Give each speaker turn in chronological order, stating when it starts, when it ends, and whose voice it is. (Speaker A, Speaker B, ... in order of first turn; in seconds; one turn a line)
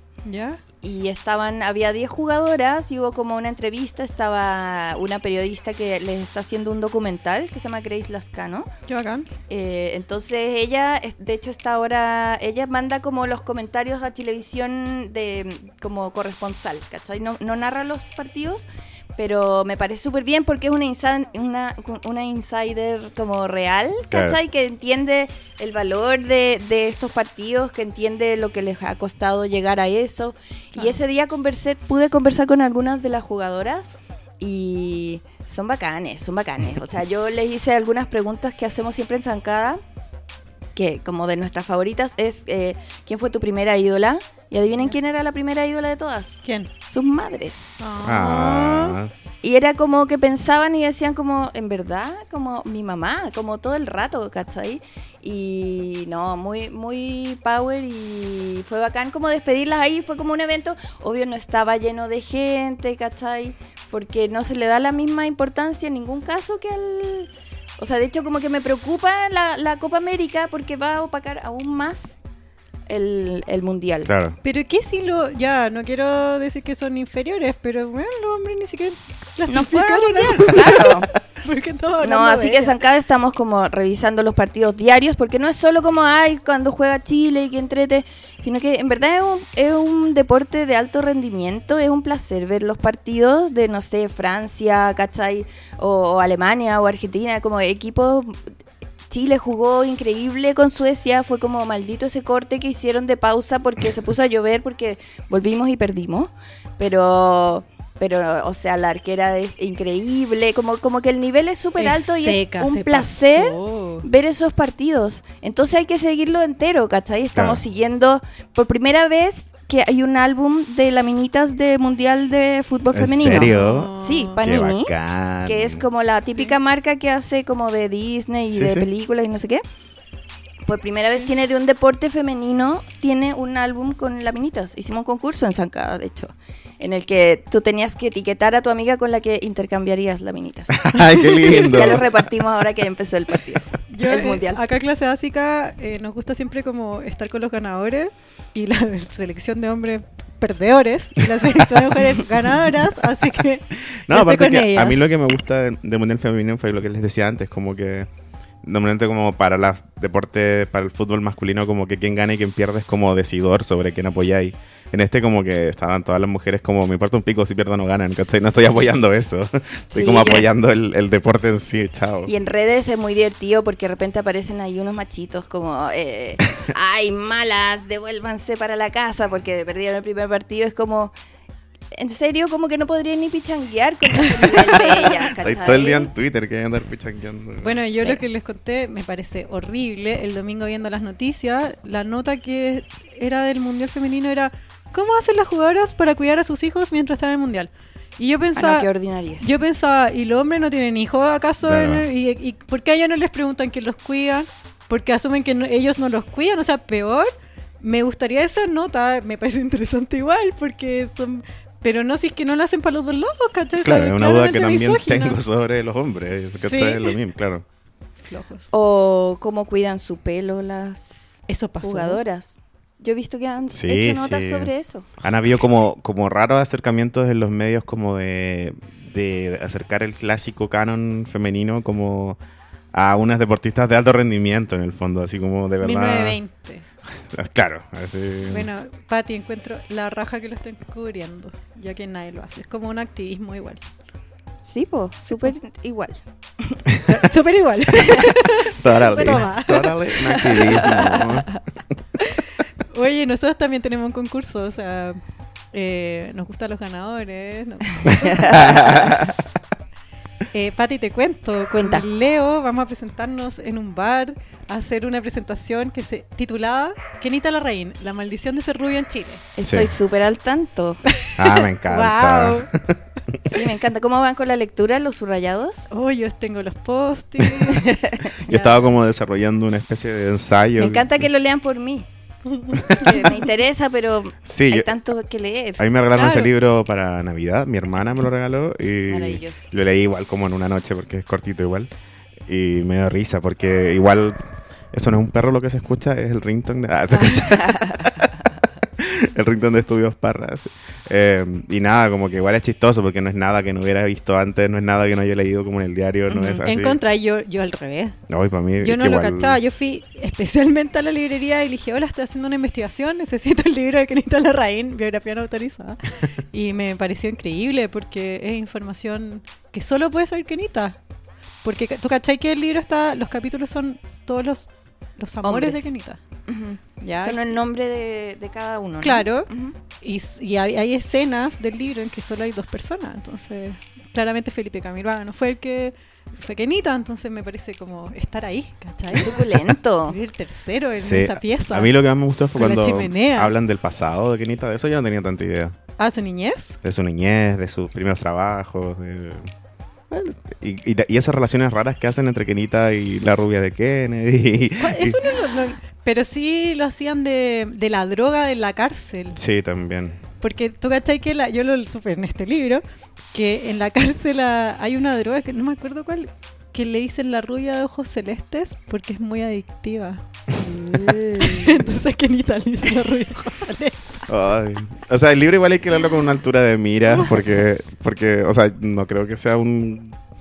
Speaker A: 0.2-0.6
Speaker B: 0.8-8.7
Speaker A: 8.9-9.3
Speaker B: 9.5-18.6
Speaker B: 19.1-39.8
Speaker C: 24.1-24.4
Speaker B: 40.7-47.7
Speaker A: 47.8-49.0
Speaker C: 48.0-49.1
Speaker B: 49.4-72.2
Speaker B: 72.9-74.1
Speaker C: 74.0-74.4
Speaker A: 74.4-82.8
Speaker B: 79.5-81.1
Speaker B: 82.0-98.4
Speaker B: 99.1-124.9
Speaker A: 111.8-114.0
Speaker C: 117.3-117.6
Speaker C: 122.9-125.8
Speaker A: 123.3-124.4
Speaker B: 125.5-129.6
Speaker C: 128.5-128.9
Speaker B: 130.6-141.0
Speaker C: 140.7-142.1
Speaker A: 141.2-141.7
Speaker B: 141.5-144.6
Speaker A: 143.9-155.0
Speaker C: 154.1-158.1
Speaker C: 158.6-172.3
Speaker B: 169.9-170.5
Speaker B: 172.2-181.1
Speaker B: 181.9-186.1
Speaker C: 185.4-187.8
Speaker A: 187.6-198.9
Speaker B: 187.9-188.2
Speaker B: 198.6-199.5
Speaker A: 199.4-215.4
Speaker C: 201.6-202.1
Speaker C: 213.8-217.6
Speaker A: 216.6-217.2
Speaker A: 218.2-218.7
Speaker B: 218.7-225.1
Speaker A: 221.5-222.2
Speaker C: 223.7-232.4
Speaker C: 232.9-236.4
Speaker A: 235.8-236.8
Speaker C: 237.3-238.7
Speaker A: 238.4-243.8
Speaker B: 244.6-246.8
Speaker A: 247.1-250.9
Speaker B: 248.0-248.3
Speaker C: 248.7-251.5
Speaker B: 249.1-249.4
Speaker B: 250.6-251.3
Speaker A: 252.2-255.2
Speaker A: 255.7-258.9
Speaker C: 258.1-259.3
Speaker B: 258.3-259.2
Speaker A: 260.5-269.5
Speaker B: 261.8-262.0
Speaker B: 269.6-271.0
Speaker C: 269.6-269.9
Speaker A: 271.2-272.7
Speaker C: 271.3-273.4
Speaker B: 273.5-275.9
Speaker A: 275.9-277.9
Speaker B: 277.7-278.3
Speaker C: 278.4-281.2
Speaker A: 278.5-278.9
Speaker B: 280.8-282.1
Speaker A: 282.4-283.3
Speaker C: 282.8-283.1
Speaker B: 283.0-285.8
Speaker C: 284.4-284.9
Speaker C: 285.8-291.9
Speaker A: 286.1-286.5
Speaker B: 289.1-289.6
Speaker C: 292.5-294.4
Speaker C: 294.9-298.3
Speaker B: 297.1-298.3
Speaker C: 299.0-307.0
Speaker B: 306.3-306.6
Speaker A: 306.6-308.2
Speaker C: 308.3-309.6
Speaker A: 308.8-321.0
Speaker A: 321.6-326.2
Speaker B: 325.4-325.9
Speaker B: 326.5-329.8
Speaker A: 327.0-327.5
Speaker A: 329.0-329.5
Speaker A: 330.0-341.9
Speaker B: 339.1-340.2
Speaker C: 340.9-345.8
Speaker A: 342.6-343.5
Speaker A: 346.0-346.8
Speaker C: 346.8-349.5
Speaker C: 350.1-355.2
Speaker A: 354.8-359.4
Speaker C: 359.4-360.2
Speaker A: 360.4-370.2
Speaker B: 370.6-371.9
Speaker A: 371.4-374.2
Speaker C: 374.3-380.1
Speaker A: 377.1-377.3